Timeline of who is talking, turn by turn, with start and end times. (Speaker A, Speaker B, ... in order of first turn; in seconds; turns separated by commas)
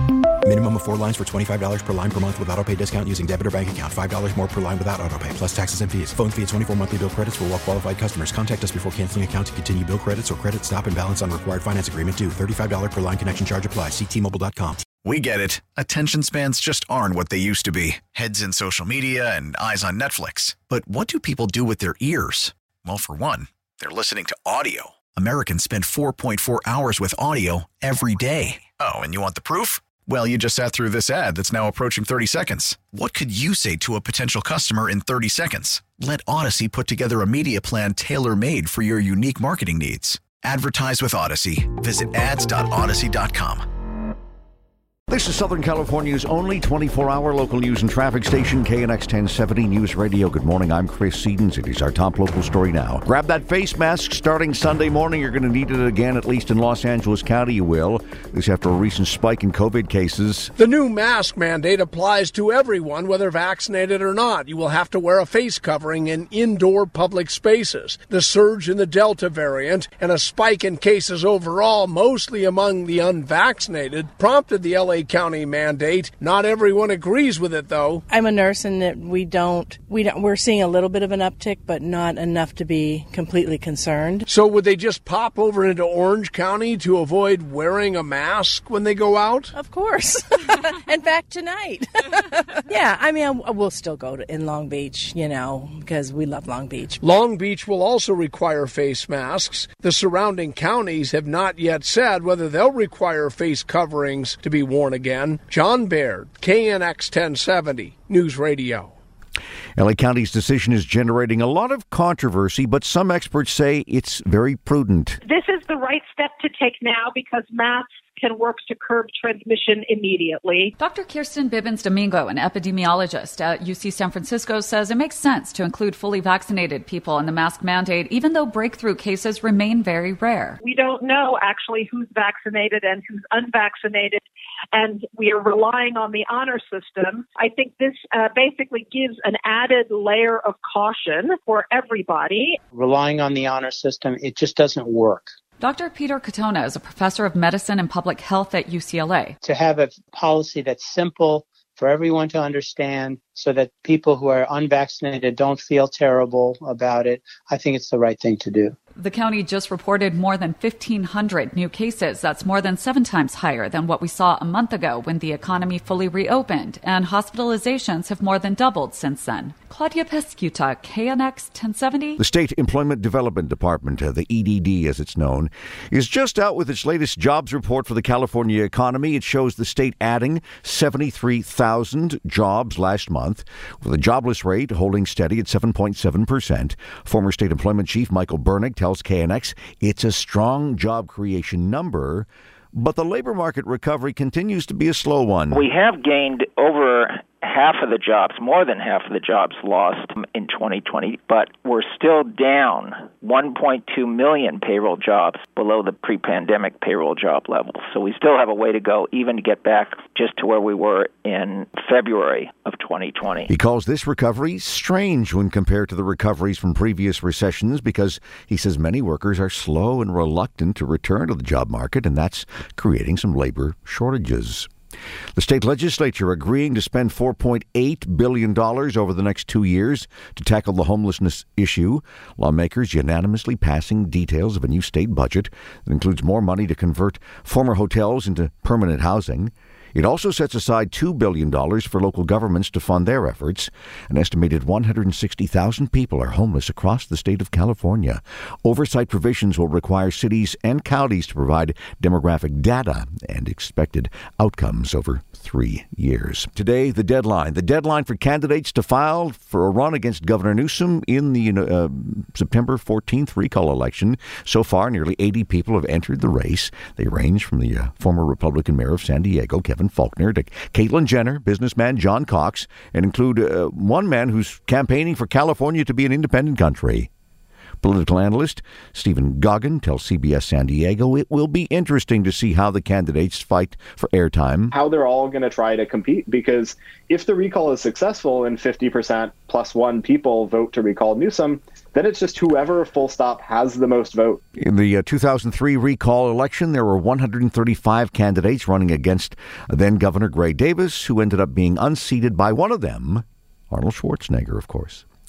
Speaker A: 0.5-14.8, Speaker B: 15.0-43.6, Speaker C: 45.1-60.5, Speaker D: 60.6-78.0, Speaker E: 78.1-84.3, Speaker D: 84.3-89.5, Speaker E: 89.5-97.1, Speaker D: 97.0-108.9, Speaker C: 109.8-115.2, Speaker F: 115.2-120.8, Speaker G: 120.8-130.6, Speaker F: 130.6-142.6, Speaker H: 142.7-145.3, Speaker G: 145.6-149.4, Speaker H: 149.4-158.8, Speaker G: 159.0-172.2, Speaker C: 172.2-195.7, Speaker I: 195.7-213.3, Speaker C: 213.5-224.7, Speaker C: 225.3-277.1, Speaker C: 277.8-284.7, Speaker J: 284.7-294.4, Speaker C: 294.6-305.1